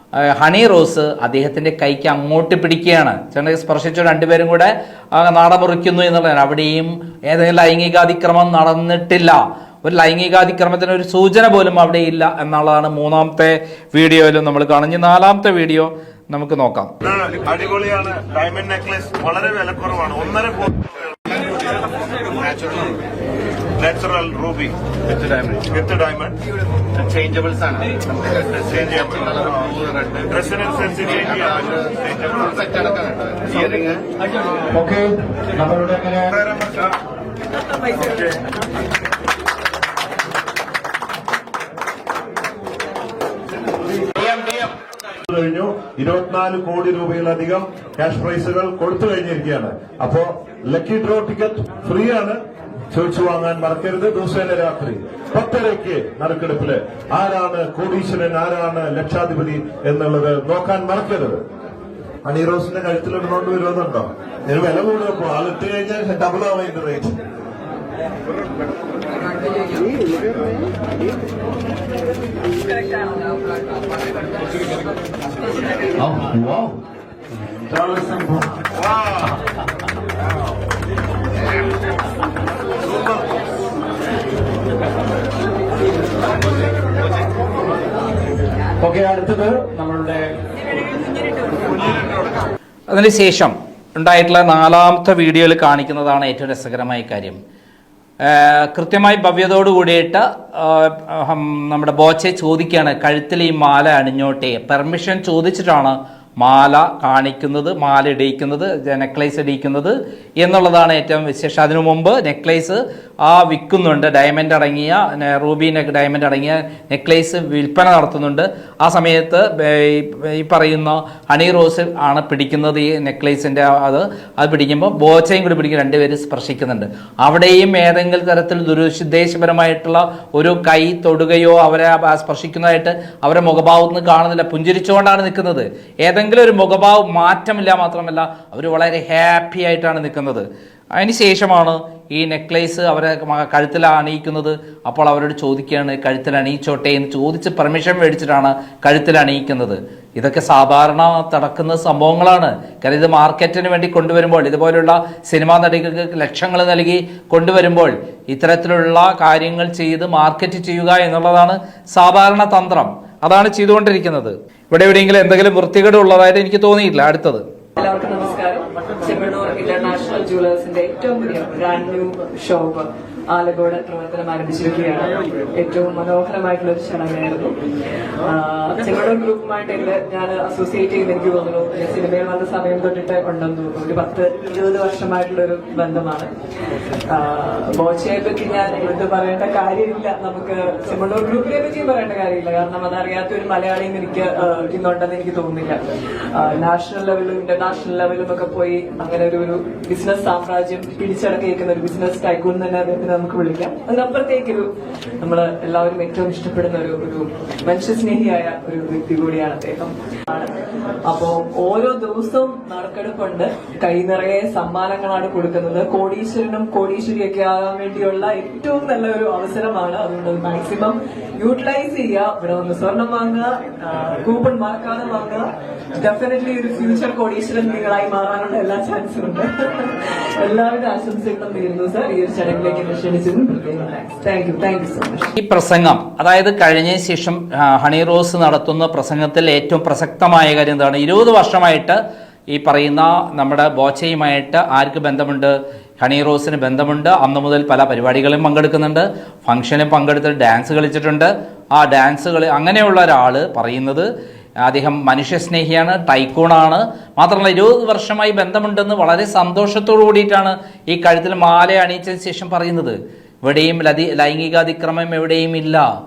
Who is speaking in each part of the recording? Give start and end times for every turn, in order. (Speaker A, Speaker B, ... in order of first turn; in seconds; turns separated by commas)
Speaker A: 0.2-16.9, Speaker B: 17.0-22.9, Speaker B: 23.8-24.7, Speaker B: 25.4-26.3, Speaker C: 27.1-27.9, Speaker B: 28.5-33.9, Speaker C: 32.6-34.0, Speaker C: 34.7-36.5, Speaker C: 44.3-44.7, Speaker B: 45.3-52.4, Speaker B: 52.9-61.4, Speaker B: 62.2-67.2, Speaker C: 76.0-76.8, Speaker C: 77.5-79.3, Speaker C: 88.8-90.4, Speaker A: 92.9-97.4, Speaker A: 98.2-140.4, Speaker A: 141.0-167.4, Speaker D: 167.8-177.5, Speaker D: 178.2-186.3, Speaker D: 187.1-195.8, Speaker D: 196.3-204.7, Speaker D: 205.2-235.3, Speaker A: 235.4-242.0, Speaker A: 242.5-254.1, Speaker A: 254.7-265.8